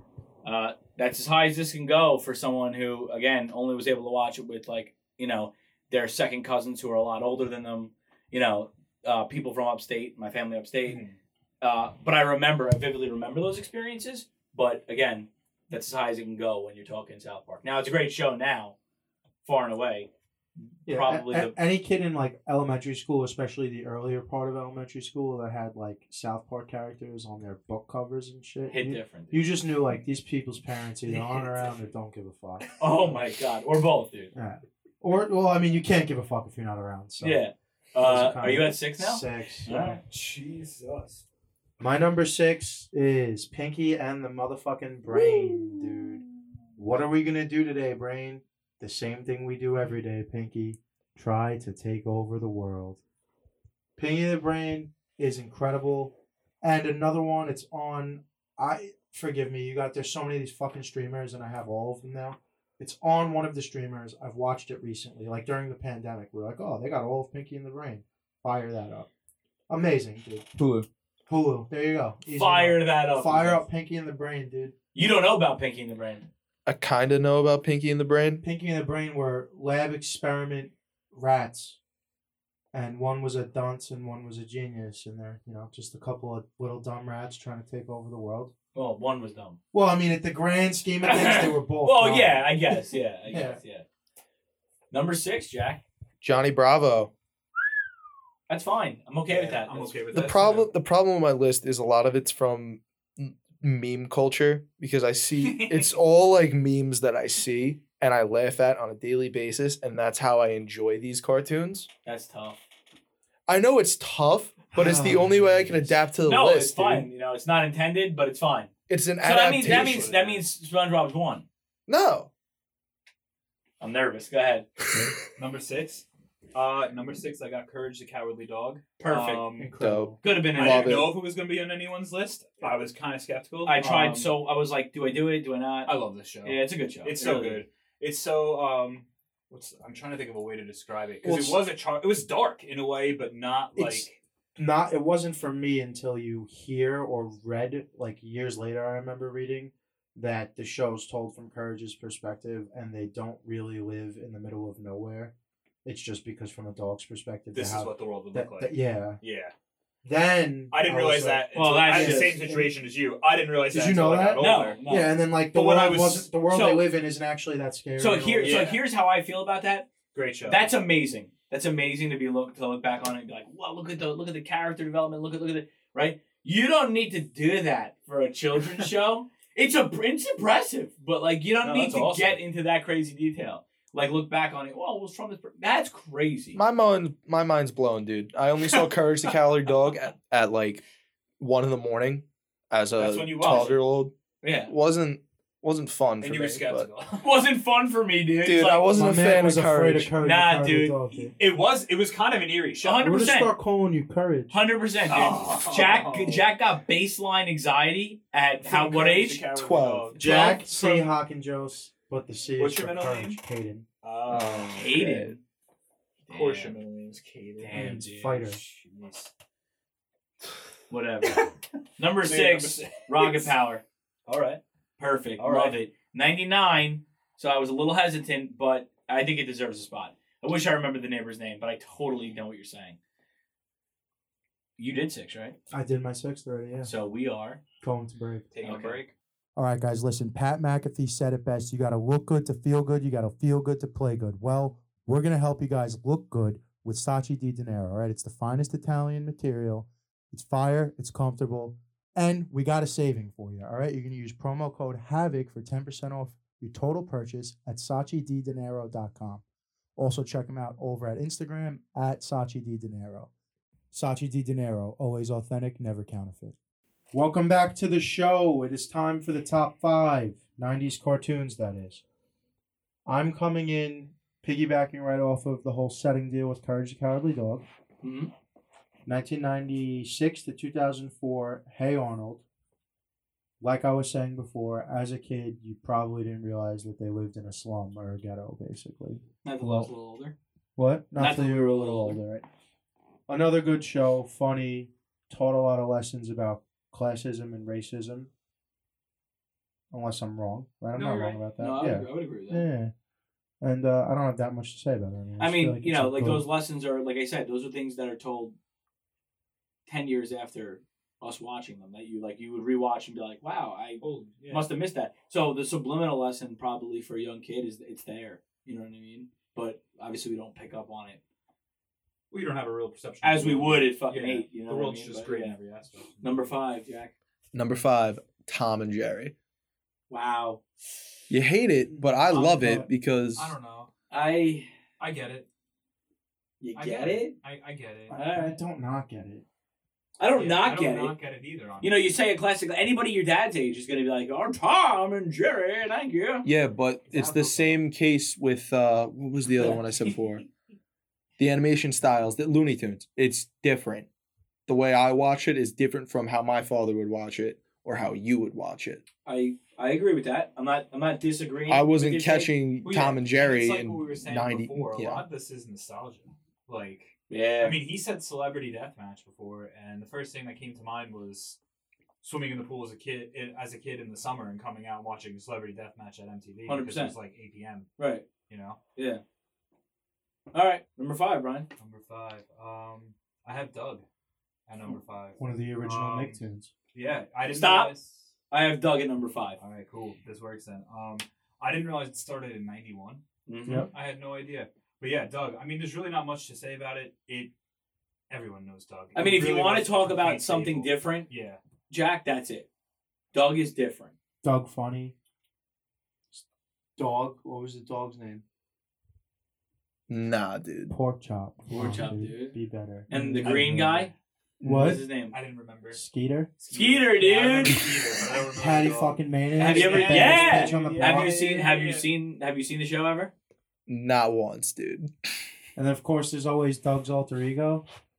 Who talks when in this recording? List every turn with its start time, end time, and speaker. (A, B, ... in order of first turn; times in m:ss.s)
0:00.4-0:11.0 A
0:10.9-0:11.2 B
0:11.6-0:18.8 A
0:19.4-0:21.6 A
0:20.9-0:32.7 C
0:28.7-0:29.5 A
0:31.1-0:31.8 A
0:32.8-0:34.3 A
0:34.3-0:37.4 C
0:37.2-0:40.0 A
0:38.0-0:40.0 C
0:40.0-0:41.2 B
0:41.8-0:46.2 C
0:46.8-0:53.0 C
0:54.0-1:09.1 C
1:09.7-1:10.6 C
1:10.6-1:10.8 D
1:11.3-1:14.7 C
1:12.4-1:13.6 A
1:14.9-1:16.3 A
1:16.7-1:18.4 D
1:18.4-1:21.8 C
1:22.7-1:28.5 C
1:28.7-1:29.6 A
1:29.7-1:33.6 C
1:31.0-1:33.8 A
1:34.9-1:35.8 A
1:36.2-1:37.1 D
1:38.5-1:40.0 A
1:39.3-1:40.7 B
1:40.1-1:51.9 D
1:45.4-1:45.9 B
1:52.0-1:52.6 A
1:53.5-1:57.1 D
1:54.7-1:56.0 C
1:56.3-1:58.7 A
1:58.9-2:00.1 D
1:59.2-2:01.4 A
1:59.6-2:00.4 B
2:01.9-2:02.3 D
2:03.8-2:04.7 A
2:05.4-2:09.7 B
2:09.0-2:09.5 A
2:09.6-2:10.2 C
2:09.8-2:11.1 D
2:10.2-2:11.0 A
2:10.6-2:14.3 B
2:13.6-2:15.9 A
2:15.9-2:24.1 B
2:16.4-2:17.6 A
2:21.2-2:21.6 C
2:23.8-2:35.3 C
2:35.8-2:39.2 C
2:37.5-2:39.5 B
2:40.0-2:42.7 C
2:40.7-2:44.8 B
2:41.6-2:42.4 A
2:43.7-2:48.6 C
2:44.4-2:45.1 A
2:45.5-2:46.3 B
2:46.5-2:46.9 A
2:48.0-2:49.9 A
2:48.4-2:48.8 B
2:50.1-2:50.7 B
2:50.4-3:06.6 A
3:01.6-3:02.4 B
3:06.6-3:10.8 D
3:11.4-3:14.1 D
3:13.0-3:13.8 A
3:14.4-3:14.7 A
3:14.7-3:16.9 D
3:16.2-3:17.3 B
3:17.2-3:19.1 A
3:18.4-3:20.1 D
3:18.9-3:21.3 C
3:20.2-3:21.3 A
3:21.4-3:23.0 B
3:22.8-3:23.5 A
3:23.0-3:24.6 C
3:24.5-3:29.4 A
3:25.1-3:26.4 B
3:28.6-3:31.1 B
3:29.6-3:30.2 D
3:30.2-3:33.9 C
3:32.6-3:33.4 B
3:34.0-3:34.8 B
3:34.3-3:35.4 D
3:34.7-3:35.4 A
3:36.3-3:36.8 A
3:36.3-3:39.3 B
3:37.6-3:38.4 A
3:37.7-3:38.6 C
3:40.9-3:41.4 A
3:41.2-3:41.6 B
3:42.0-3:43.8 A
3:42.2-3:43.5 B
3:44.3-3:44.6 B
3:45.0-3:53.0 A
3:45.4-3:45.8 B
3:54.8-3:55.6 A
3:55.7-3:56.9 C
3:56.8-3:57.6 A
3:57.8-3:58.5 C
3:58.5-3:59.1 B
3:58.6-3:59.0 A
3:59.6-4:19.4 C
4:20.0-4:23.3 C
4:23.9-4:26.6 C
4:27.1-4:32.0 C
4:33.0-4:37.6 C
4:38.0-4:38.3 A
4:39.1-4:42.4 C
4:43.6-4:49.9 C
4:49.4-4:50.4 A
4:50.8-4:52.5 C
4:51.2-4:52.2 A
4:53.3-4:58.3 C
4:59.9-5:02.9 C
5:01.0-5:02.6 A
5:03.6-5:06.4 C
5:05.4-5:08.6 A
5:09.9-5:21.2 A
5:14.0-5:14.7 B
5:22.3-5:26.5 B
5:23.2-5:25.6 A
5:26.2-5:27.1 A
5:27.5-5:29.3 D
5:30.1-5:30.7 A
5:31.3-5:33.5 D
5:31.9-5:32.9 C
5:33.4-5:33.9 B
5:34.1-5:34.7 A
5:35.0-5:35.5 B
5:36.6-5:37.3 A
5:36.8-5:38.2 B
5:38.1-5:38.6 A
5:38.1-5:39.4 C
5:40.2-5:41.1 A
5:40.4-5:42.2 B
5:41.8-5:46.5 A
5:46.4-5:50.4 D
5:47.1-5:47.8 B
5:51.4-5:54.1 D
5:54.7-5:59.0 D
5:59.3-6:02.5 A
6:01.7-6:05.2 D
6:02.8-6:11.6 B
6:07.3-6:07.8 A
6:12.2-6:17.9 B
6:16.7-6:17.1 A
6:18.0-6:18.3 A
6:18.5-6:18.8 B
6:19.0-6:19.2 A
6:20.5-6:21.7 A
6:21.8-6:24.0 B
6:24.7-6:26.4 B
6:25.4-6:26.7 C
6:26.9-6:28.3 B
6:27.5-6:27.9 A
6:28.5-6:29.6 A
6:29.6-6:33.2 B
6:33.5-6:33.9 A
6:33.9-6:37.5 B
6:38.3-6:41.6 B
6:39.2-6:41.3 A
6:41.9-6:42.7 A
6:43.3-6:44.1 A
6:44.4-6:45.1 C
6:47.0-6:48.4 C
6:50.1-6:50.9 D
6:50.9-6:54.1 C
6:51.7-6:52.6 A
6:53.1-6:55.4 A
6:53.4-6:53.7 B
6:54.6-6:55.0 C
6:55.2-6:56.0 B
6:55.9-6:56.5 C
6:56.6-7:02.1 B
6:56.7-6:57.8 A
6:58.5-7:01.7 C
6:59.6-7:03.3 A
7:03.9-7:05.1 D
7:05.8-7:07.8 C